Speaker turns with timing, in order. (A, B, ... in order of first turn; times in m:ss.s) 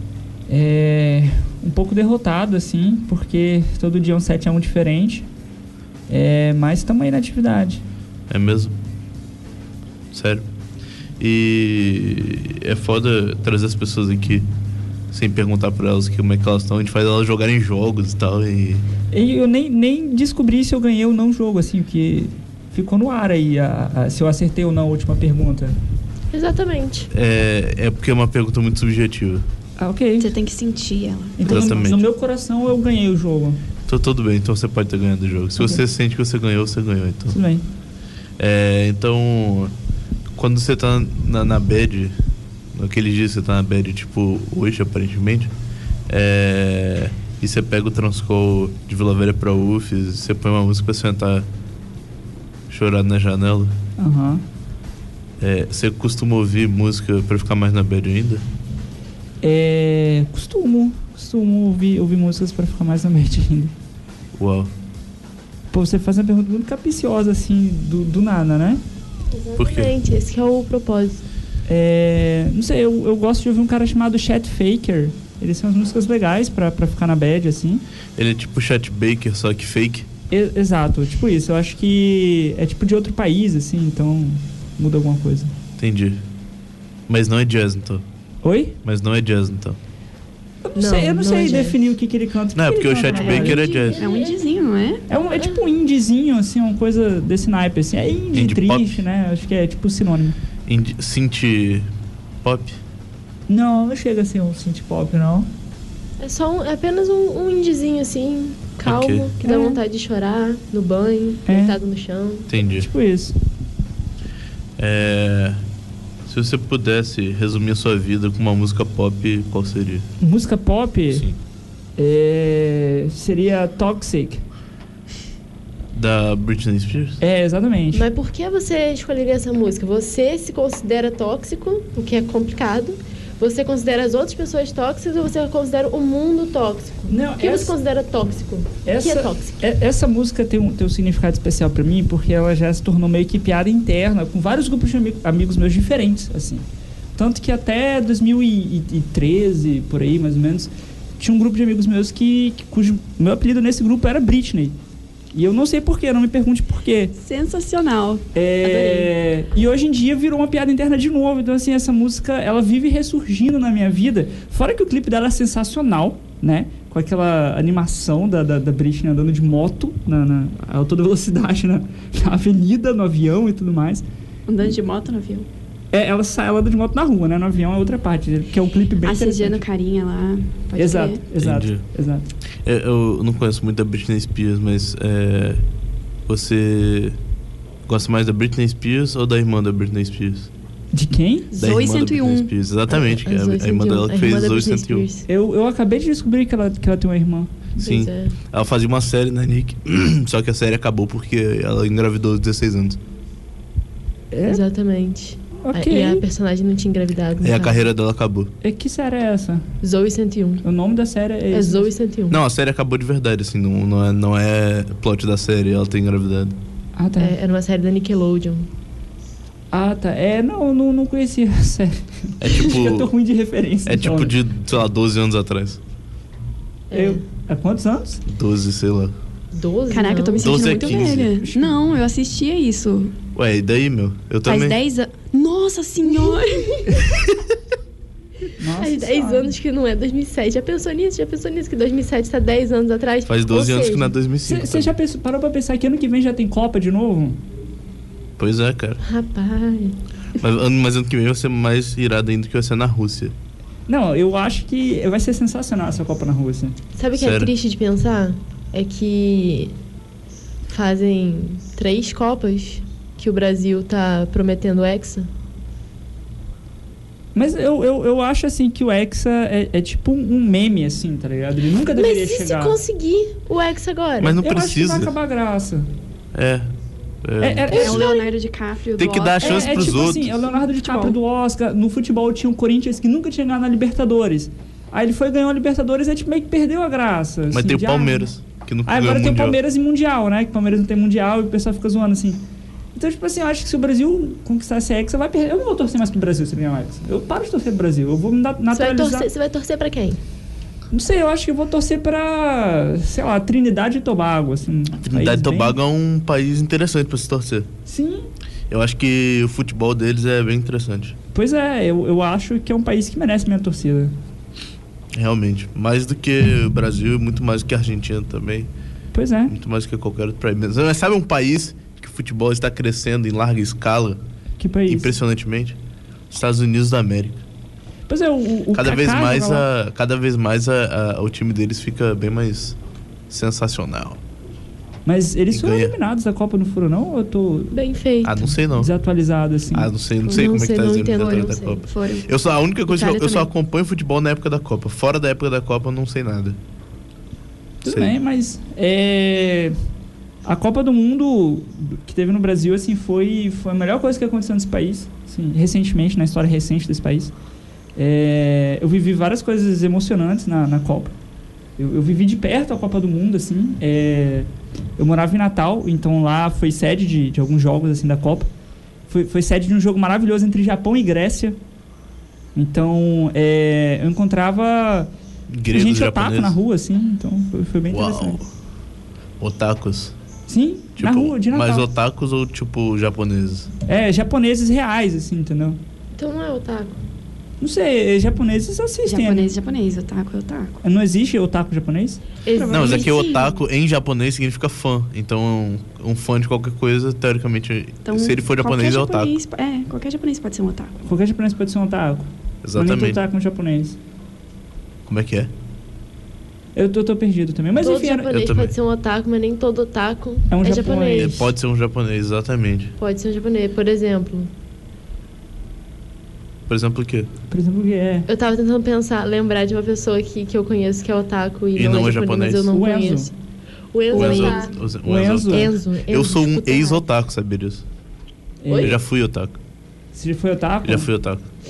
0:00.5-0:05.3 A
0:06.1-0:07.8 A
0:08.3-0:08.7 B
0:10.1-0:10.5 B
0:11.2-0:14.5 B
0:15.1-0:18.8 B
0:19.1-0:25.8 A
0:26.3-0:27.1 C
0:27.1-0:29.4 B
0:29.8-0:30.3 A
0:30.2-0:31.7 D
0:31.4-0:33.6 A
0:31.5-0:32.1 B
0:33.9-0:37.4 B
0:37.3-0:37.6 A
0:38.4-0:39.7 B
0:40.4-0:42.2 B
0:42.7-0:45.5 B
0:46.1-0:51.5 B
0:52.7-0:53.8 B
0:54.0-0:54.4 A
0:55.4-0:58.4 B
0:59.4-1:03.7 A
1:04.4-1:04.7 B
1:05.7-1:08.8 A
1:09.3-1:11.2 C
1:09.6-1:09.9 B
1:11.7-1:17.8 A
1:18.2-1:20.1 B
1:20.3-1:25.5 A
1:25.8-1:26.2 B
1:27.1-1:28.0 B
1:28.4-1:28.8 A
1:28.8-1:29.8 B
1:30.6-1:33.6 A
1:30.8-1:32.0 C
1:32.6-1:34.0 B
1:33.1-1:35.0 D
1:33.2-1:34.5 C
1:35.1-1:40.4 A
1:35.3-1:35.6 C
1:38.3-1:39.0 B
1:40.7-1:41.9 B
1:42.4-1:42.8 B
1:43.5-1:45.5 A
1:46.2-1:52.5 C
1:48.8-1:49.3 B
1:49.4-1:49.8 A
1:51.5-1:51.8 A
1:52.5-1:52.9 B
1:52.8-1:53.4 A
1:54.8-1:55.6 B
1:56.3-2:00.1 B
2:00.2-2:01.2 A
2:01.1-2:01.4 B
2:02.0-2:04.4 A
2:05.9-2:07.2 B
2:07.2-2:08.1 A
2:07.9-2:19.6 C
2:17.1-2:17.7 A
2:18.9-2:26.6 A
2:27.2-2:34.8 A
2:35.3-2:37.1 A
2:37.2-2:39.1 D
2:38.4-2:54.0 A
2:54.5-2:55.5 D
2:55.9-2:59.6 A
2:59.0-3:01.2 D
3:00.8-3:02.3 A
3:01.4-3:01.8 B
3:02.6-3:05.6 B
3:06.3-3:07.2 B
3:07.9-3:10.5 B
3:10.9-3:11.5 A
3:11.5-3:12.5 D
3:11.6-3:15.1 B
3:12.9-3:15.3 C
3:15.3-3:17.5 A
3:17.8-3:18.4 C
3:17.8-3:23.0 B
3:24.3-3:24.6 A
3:24.4-3:27.9 C
3:25.6-3:26.2 A
3:27.4-3:28.5 B
3:28.6-3:29.6 A
3:29.8-3:30.6 C
3:30.6-3:31.9 A
3:31.5-3:32.4 C
3:32.3-3:36.6 B
3:37.0-3:37.4 A
3:37.2-3:38.7 C
3:39.7-3:44.4 A
3:42.4-3:43.1 B
3:43.9-3:45.8 B
3:46.9-3:47.2 C
3:46.9-3:48.2 A
3:48.3-3:49.1 B
3:49.5-3:50.8 C
3:49.9-3:53.2 D
3:50.4-3:51.4 B
3:51.4-3:51.8 A
3:53.4-3:54.8 B
3:54.5-3:56.8 D
3:56.1-3:56.4 C
3:58.6-3:59.5 A
3:58.8-4:04.2 C
4:03.3-4:04.9 B
4:04.4-4:07.4 A
4:08.4-4:09.0 B
4:09.0-4:10.0 C
4:10.4-4:13.4 B
4:13.9-4:16.8 A
4:17.0-4:19.7 C
4:17.2-4:17.5 B
4:20.7-4:25.3 C
4:27.4-4:32.8 A
4:32.0-4:34.4 C
4:34.2-4:35.1 B
4:34.4-4:35.9 A
4:36.3-4:36.7 B
4:37.2-4:38.0 B
4:37.4-4:38.1 A
4:37.7-4:40.0 D
4:37.8-4:38.3 C
4:39.0-4:40.4 B
4:39.4-4:48.3 A
4:40.8-4:41.2 D
4:47.5-4:49.6 B
4:48.9-4:52.4 A
4:53.0-4:59.3 A
4:58.7-5:00.2 C
5:00.9-5:05.8 A
5:05.0-5:07.7 B
5:07.9-5:08.3 A
5:08.7-5:11.2 B
5:11.3-5:14.1 A
5:15.1-5:18.7 B
5:19.1-5:19.5 A
5:19.5-5:24.2 B
5:24.6-5:25.1 A
5:24.9-5:25.8 B
5:26.3-5:27.4 B
5:28.1-5:29.6 A
5:28.7-5:32.8 B
5:33.3-5:34.2 B
5:35.1-5:37.8 A
5:35.5-5:35.9 B
5:37.7-5:38.5 C
5:38.2-5:38.9 B
5:38.7-5:39.9 A
5:39.7-5:46.6 B
5:40.3-5:41.9 C
5:41.9-5:42.3 D
5:42.9-5:43.5 D
5:47.8-5:49.8 A
5:47.9-5:48.1 B
5:50.4-5:57.3 A
5:58.0-6:01.2 A
6:01.8-6:08.5 A
6:09.1-6:11.6 A
6:12.6-6:15.1 A
6:15.5-6:16.6 B
6:15.7-6:18.4 A
6:17.9-6:18.5 B
6:19.4-6:20.1 B
6:20.5-6:21.9 A
6:21.0-6:23.7 B
6:23.9-6:25.8 A
6:26.2-6:27.0 C
6:27.6-6:29.5 A
6:29.0-6:30.8 D
6:30.8-6:33.0 A
6:32.4-6:33.4 C
6:32.7-6:39.3 B
6:32.8-6:33.5 D
6:38.0-6:41.0 D
6:41.0-6:44.0 A
6:42.6-6:43.2 B
6:45.1-6:45.5 B
6:46.8-6:48.3 A
6:47.8-6:51.5 C
6:48.3-6:48.7 B
6:50.5-6:51.5 A
6:51.2-6:52.9 B
6:53.0-6:54.5 C
6:56.7-6:57.3 B
6:57.5-6:58.3 A
6:58.3-7:03.3 C
7:01.8-7:02.7 B
7:02.7-7:03.3 A
7:03.9-7:04.7 C
7:04.1-7:07.8 B
7:04.2-7:04.5 A
7:05.0-7:05.7 A
7:05.5-7:07.0 C
7:08.6-7:09.0 A
7:08.7-7:09.0 C
7:08.8-7:09.6 B
7:10.1-7:11.1 A
7:10.8-7:11.5 B